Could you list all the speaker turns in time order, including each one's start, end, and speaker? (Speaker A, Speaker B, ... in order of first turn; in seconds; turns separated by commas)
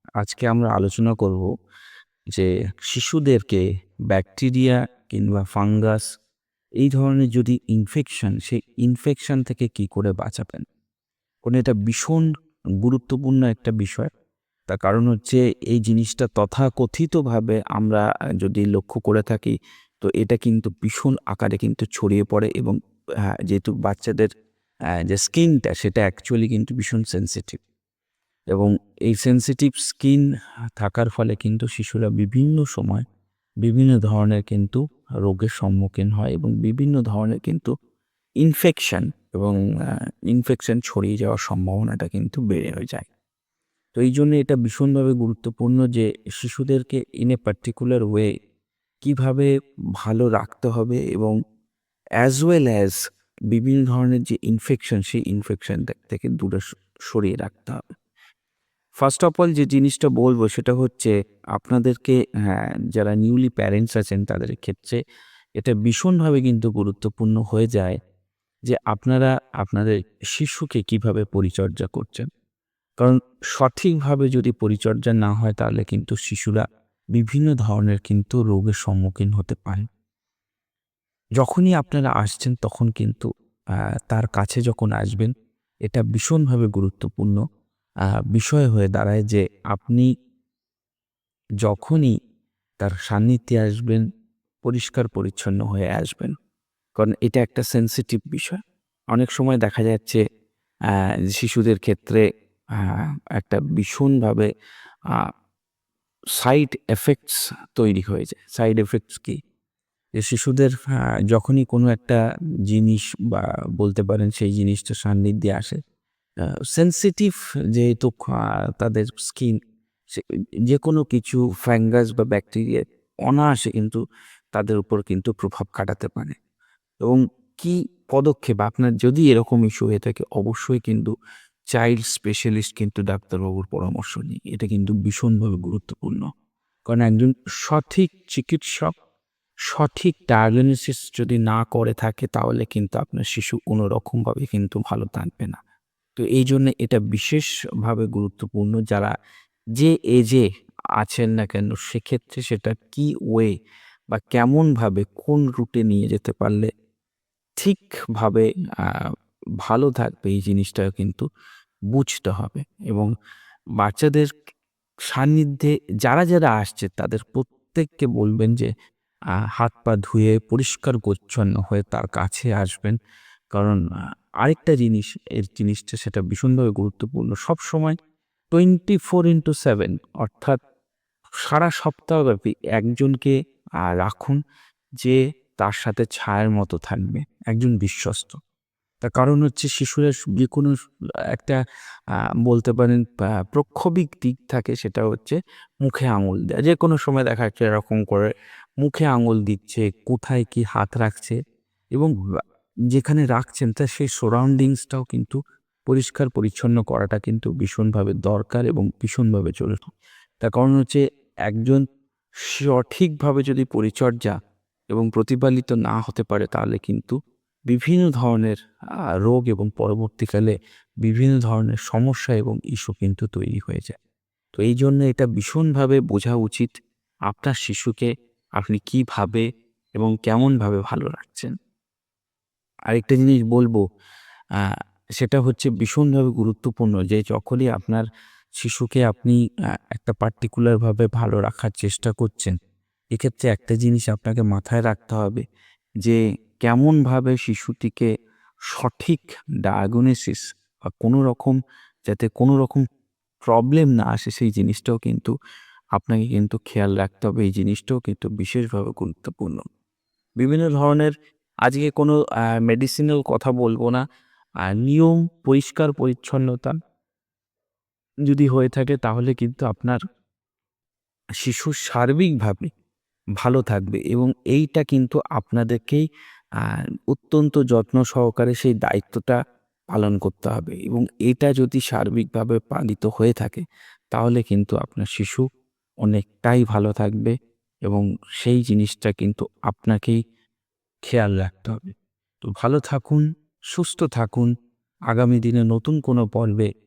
Speaker A: 0.2-1.5, Speaker A: 2.3-6.0, Speaker A: 6.8-10.6, Speaker A: 11.4-12.3, Speaker A: 12.8-14.1, Speaker A: 14.7-22.8, Speaker A: 23.4-24.3, Speaker A: 25.0-27.6, Speaker A: 28.5-30.3, Speaker A: 30.8-33.0, Speaker A: 33.6-37.7, Speaker A: 38.4-43.1, Speaker A: 44.0-48.3, Speaker A: 49.0-51.4, Speaker A: 52.2-53.0, Speaker A: 53.5-57.8, Speaker A: 59.0-65.0, Speaker A: 65.6-68.0, Speaker A: 68.7-72.3, Speaker A: 73.0-79.9, Speaker A: 81.4-83.3, Speaker A: 84.1-85.3, Speaker A: 85.8-87.4, Speaker A: 88.3-90.1, Speaker A: 91.6-92.1, Speaker A: 92.8-94.0, Speaker A: 94.6-96.3, Speaker A: 97.0-98.6, Speaker A: 99.1-100.2, Speaker A: 100.9-102.2, Speaker A: 102.8-104.5, Speaker A: 106.4-109.4, Speaker A: 110.2-115.8, Speaker A: 116.7-119.6, Speaker A: 120.1-124.0, Speaker A: 124.5-126.4, Speaker A: 127.0-131.1, Speaker A: 131.7-136.3, Speaker A: 136.9-138.9, Speaker A: 139.7-145.6, Speaker A: 146.2-149.1, Speaker A: 149.8-150.4, Speaker A: 151.0-153.5, Speaker A: 154.1-156.7, Speaker A: 157.6-161.2, Speaker A: 161.9-163.1, Speaker A: 163.8-164.3, Speaker A: 165.1-168.7, Speaker A: 169.5-173.0, Speaker A: 173.5-173.8, Speaker A: 174.4-177.9, Speaker A: 178.5-180.6, Speaker A: 181.4-184.4, Speaker A: 185.0-188.4, Speaker A: 189.0-190.8, Speaker A: 191.3-191.6, Speaker A: 192.4-198.3, Speaker A: 198.8-201.4, Speaker A: 202.9-211.8, Speaker A: 212.4-214.3, Speaker A: 214.9-217.2, Speaker A: 217.7-218.6, Speaker A: 219.1-223.9, Speaker A: 224.6-226.7, Speaker A: 227.3-229.4, Speaker A: 229.9-231.5, Speaker A: 232.9-233.8, Speaker A: 234.6-238.1, Speaker A: 238.6-242.6, Speaker A: 243.1-245.4, Speaker A: 246.0-248.1, Speaker A: 248.7-250.4, Speaker A: 251.0-252.8, Speaker A: 253.4-255.3, Speaker A: 255.9-259.6, Speaker A: 260.4-261.1, Speaker A: 261.7-264.0, Speaker A: 264.6-266.8, Speaker A: 268.2-270.0, Speaker A: 271.4-272.7, Speaker A: 273.4-276.0, Speaker A: 276.6-279.4, Speaker A: 279.9-285.5, Speaker A: 286.0-287.3, Speaker A: 287.9-290.2, Speaker A: 291.0-294.5, Speaker A: 295.1-296.7